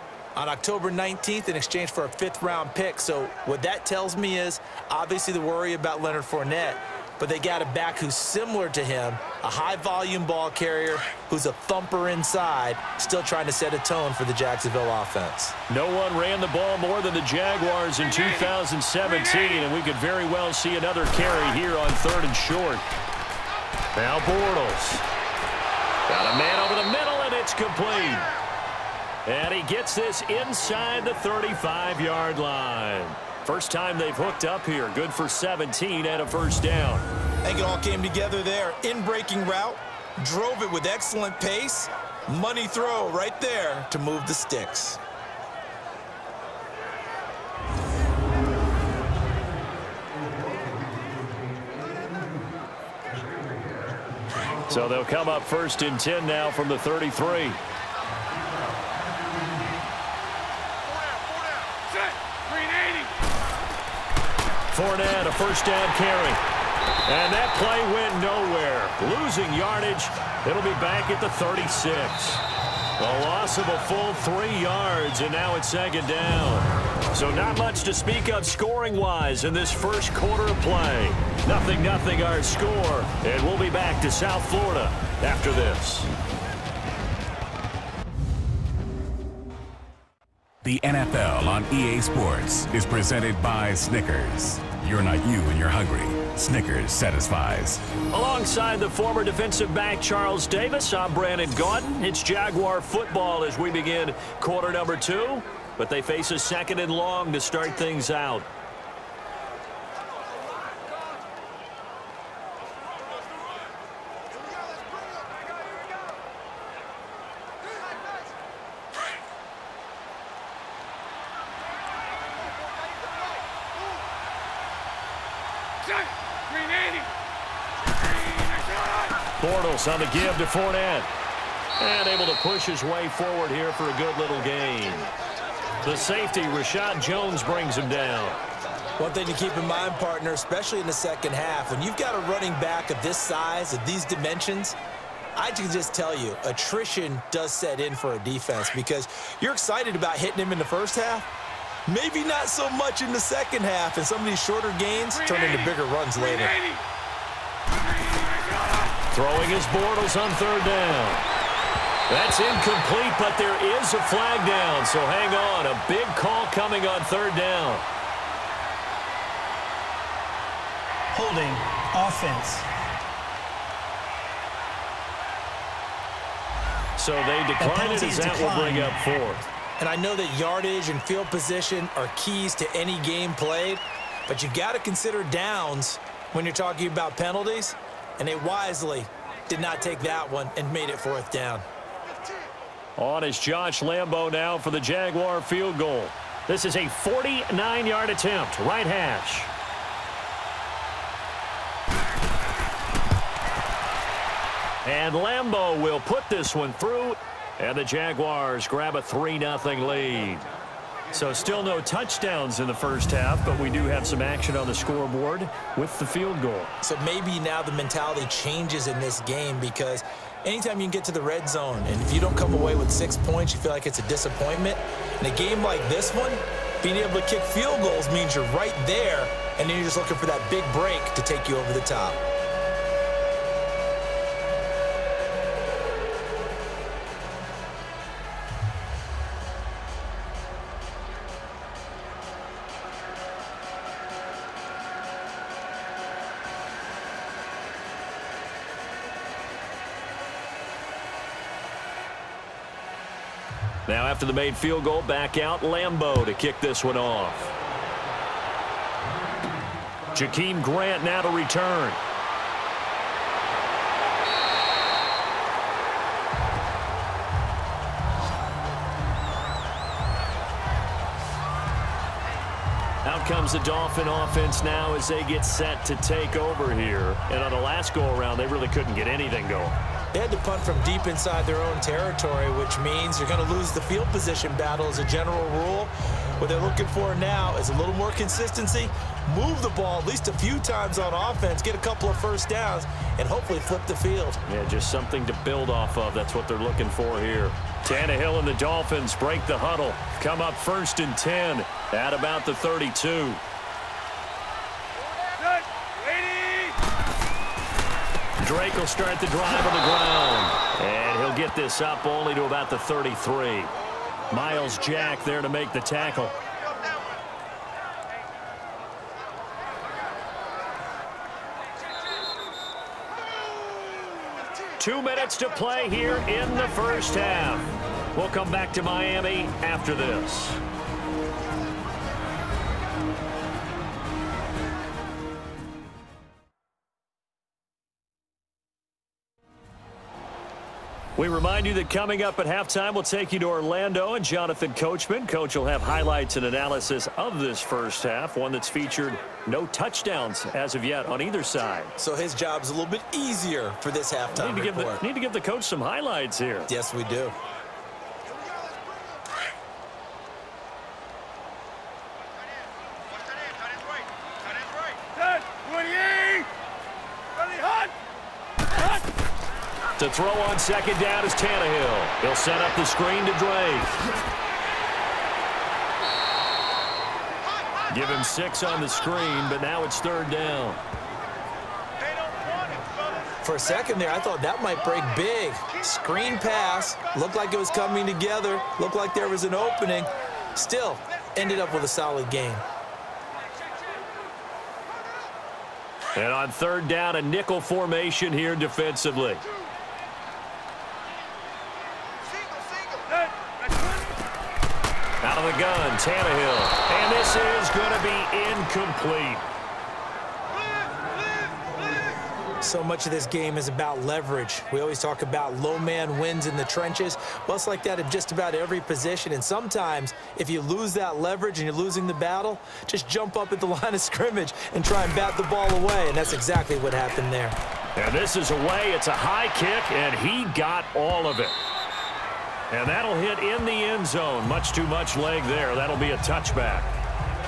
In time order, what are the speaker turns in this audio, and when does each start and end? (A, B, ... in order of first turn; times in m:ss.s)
0:00.4-0:15.6 A
0:15.7-0:22.8 B
0:24.0-0:25.0 B
0:26.1-0:28.3 B
0:29.3-0:37.1 B
0:37.4-0:45.0 A
0:53.4-0:53.9 C
0:54.7-0:57.6 B
1:04.7-1:06.4 B
1:07.1-1:12.4 B
1:13.0-1:26.1 B
1:30.6-1:37.8 C
1:38.1-1:48.5 B
2:09.4-2:11.1 B
2:11.8-2:15.1 B
2:15.8-2:18.4 B
2:19.0-2:24.8 A
2:25.4-2:31.3 A
2:31.9-2:36.6 A
2:39.1-2:41.2 B
2:42.1-2:47.8 B
2:51.1-2:52.7 D
2:57.0-2:59.4 B
2:57.6-2:59.0 D
2:59.8-3:11.6 A
3:13.0-3:19.5 B
3:24.8-3:30.5 B
3:31.1-3:36.7 B
3:36.8-3:52.2 A
4:13.9-4:17.5 B
4:20.1-4:22.0 B
4:33.0-4:39.8 B
4:40.1-4:54.4 A
4:54.5-5:03.4 B
5:08.4-5:13.7 B
5:14.3-5:16.4 B
5:24.8-5:30.6 B
5:41.2-5:52.0 B
5:52.0-5:55.0 A
5:54.3-5:56.7 B
5:56.7-5:57.4 A
6:10.0-6:14.0 B
6:17.9-6:20.8 B
6:23.4-6:32.6 A
6:36.2-6:39.4 B
6:45.2-6:49.5 B
6:52.6-7:07.6 A
7:08.0-7:11.6 B
7:12.7-7:16.9 B